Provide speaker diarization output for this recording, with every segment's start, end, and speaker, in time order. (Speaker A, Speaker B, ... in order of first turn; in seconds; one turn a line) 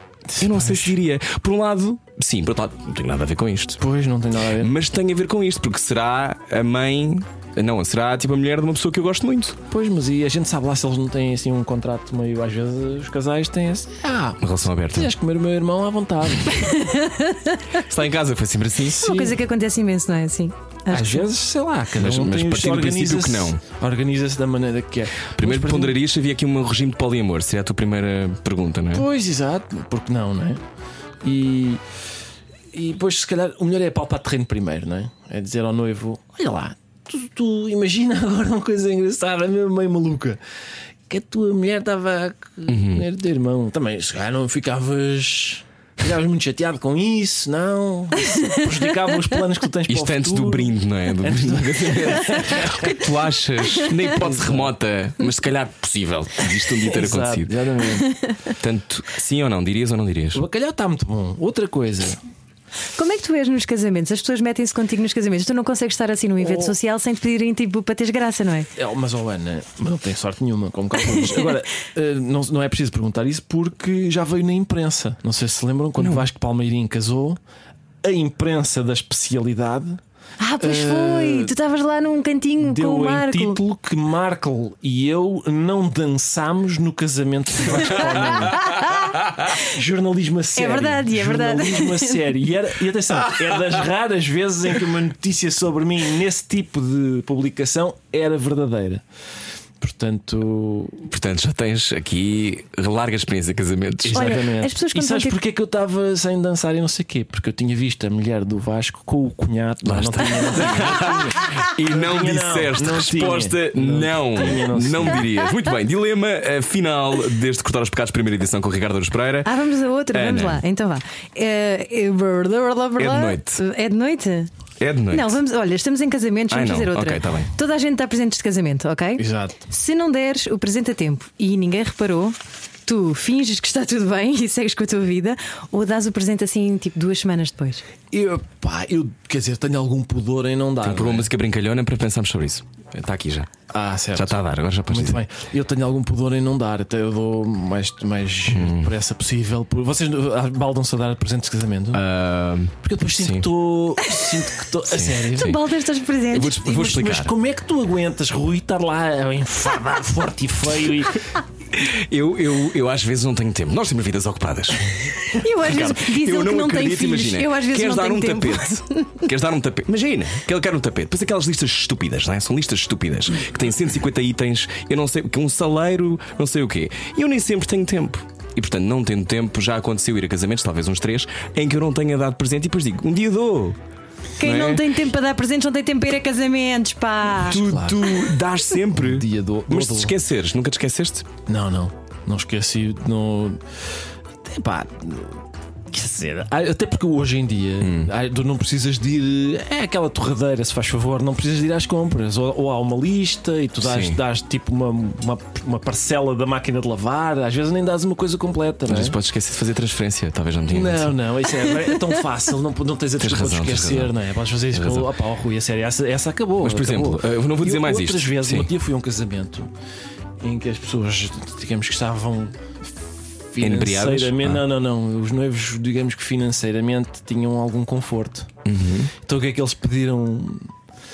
Speaker A: 0.3-1.0
Speaker B: 0.4-3.8
Speaker A: 3.8-4.7
Speaker B: 4.6-9.6
Speaker A: 9.7-16.8
Speaker B: 14.4-15.1
Speaker C: 16.5-17.8
Speaker B: 17.9-19.1
Speaker A: 18.9-19.4
Speaker C: 19.0-21.3
Speaker A: 20.9-26.0
Speaker B: 22.0-23.6
Speaker B: 25.4-29.1
Speaker A: 28.9-30.6
Speaker A: 31.2-31.8
Speaker A: 32.7-40.4
Speaker A: 41.1-53.1
Speaker B: 42.7-43.1
Speaker B: 49.9-57.5
Speaker A: 54.1-54.7
Speaker A: 56.8-58.1
Speaker B: 58.6-60.4
Speaker A: 60.3-62.2
Speaker C: 63.0-68.7
Speaker A: 66.4-66.8
Speaker A: 68.8-77.4
Speaker B: 76.0-76.2
Speaker A: 78.0-80.0
Speaker C: 80.4-83.6
Speaker A: 80.6-81.5
Speaker A: 82.6-88.7
Speaker C: 88.0-89.2
Speaker A: 89.6-99.0
Speaker C: 90.5-92.3
Speaker A: 99.8-101.1
Speaker B: 101.1-104.4
Speaker A: 104.0-115.3
Speaker C: 104.1-105.4
Speaker B: 109.8-119.5
Speaker C: 119.5-124.5
Speaker B: 120.1-120.6
Speaker B: 123.0-123.6
Speaker B: 124.8-125.3
Speaker C: 125.1-137.9
Speaker B: 126.5-127.5
Speaker A: 129.2-129.7
Speaker A: 138.1-141.3
Speaker B: 140.8-143.5
Speaker A: 143.7-152.0
Speaker B: 144.2-145.2
Speaker B: 148.5-148.9
Speaker B: 151.9-153.5
Speaker A: 152.8-155.6
Speaker C: 154.0-154.3
Speaker B: 154.9-155.6
Speaker C: 155.1-156.7
Speaker B: 156.3-157.3
Speaker A: 156.6-161.3
Speaker B: 161.7-183.8
Speaker C: 165.3-169.2
Speaker C: 184.4-187.6
Speaker B: 184.4-184.8
Speaker A: 187.4-188.3
Speaker B: 187.4-191.3
Speaker A: 188.8-190.1
Speaker A: 191.5-193.8
Speaker A: 194.4-209.2
Speaker B: 197.8-198.1
Speaker B: 203.8-204.2
Speaker B: 208.9-211.2
Speaker A: 210.7-219.7
Speaker B: 213.2-214.1
Speaker B: 214.7-215.1
Speaker B: 216.6-218.7
Speaker A: 220.4-222.9
Speaker A: 223.5-228.5
Speaker B: 223.6-224.6
Speaker B: 228.7-229.1
Speaker A: 229.2-230.7